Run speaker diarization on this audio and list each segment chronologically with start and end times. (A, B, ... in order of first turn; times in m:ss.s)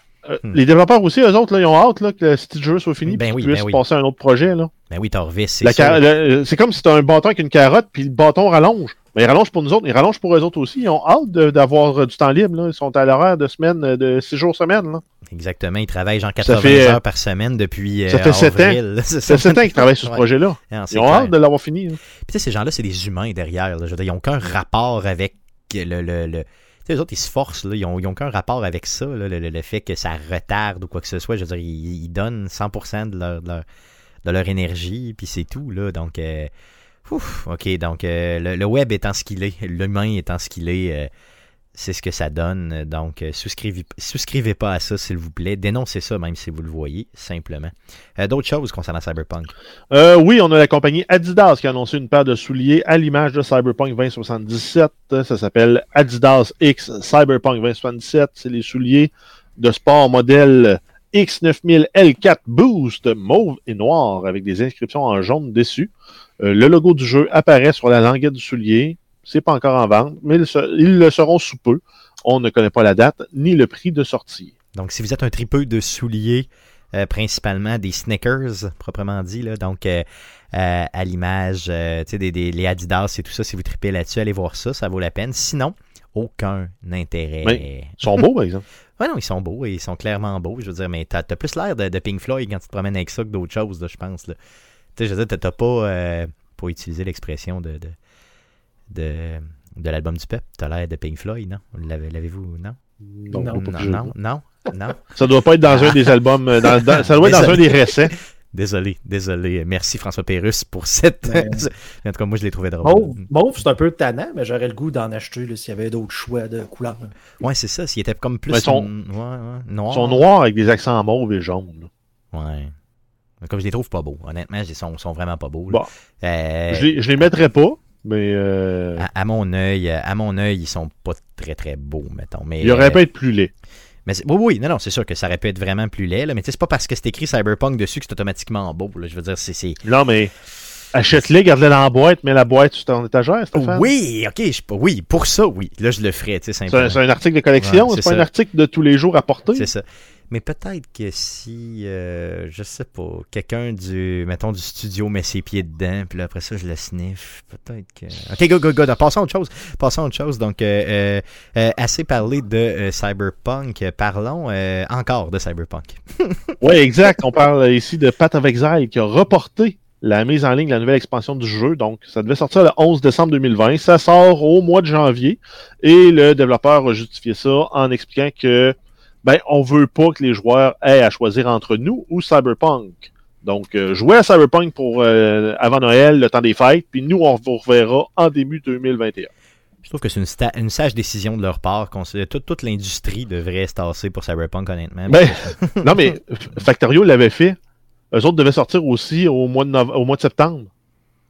0:00.2-0:04.7 A
0:03.0-0:03.8 B
0:04.9-0:06.0 B
0:05.6-0:15.0 A
0:15.3-0:21.3 B
0:16.4-0:17.0 A
0:18.1-0:22.0 A
0:22.3-0:33.6 B
0:34.2-0:36.5 B
0:37.0-0:41.1 B
0:41.7-0:49.5 B
0:49.9-1:14.5 A
1:14.7-1:28.0 B
1:27.4-1:28.6 A
1:29.0-1:34.4 B
1:35.0-1:38.0 B
1:38.9-1:42.8 B
1:43.1-1:44.1 A
1:43.3-1:43.7 C
1:43.5-1:45.1 B
1:45.1-1:48.2 A
1:45.6-1:53.2 B
1:51.2-1:51.7 C
1:52.8-1:57.1 C
1:57.4-2:00.2 B
1:58.5-1:58.9 A
1:59.9-2:01.9 A
2:02.3-2:02.7 B
2:03.4-2:07.2 B
2:06.7-2:09.0 A
2:09.0-2:13.0 B
2:12.6-2:13.5 A
2:14.0-2:19.8 B
2:19.8-2:20.3 A
2:20.9-2:23.9 A
2:23.5-2:27.0 B
2:26.7-2:29.7 A
2:27.6-2:28.3 B
2:29.5-2:46.6 B
2:46.6-3:09.3 A
3:09.8-3:15.9 B
3:15.1-3:17.6 A
3:18.1-3:20.7 A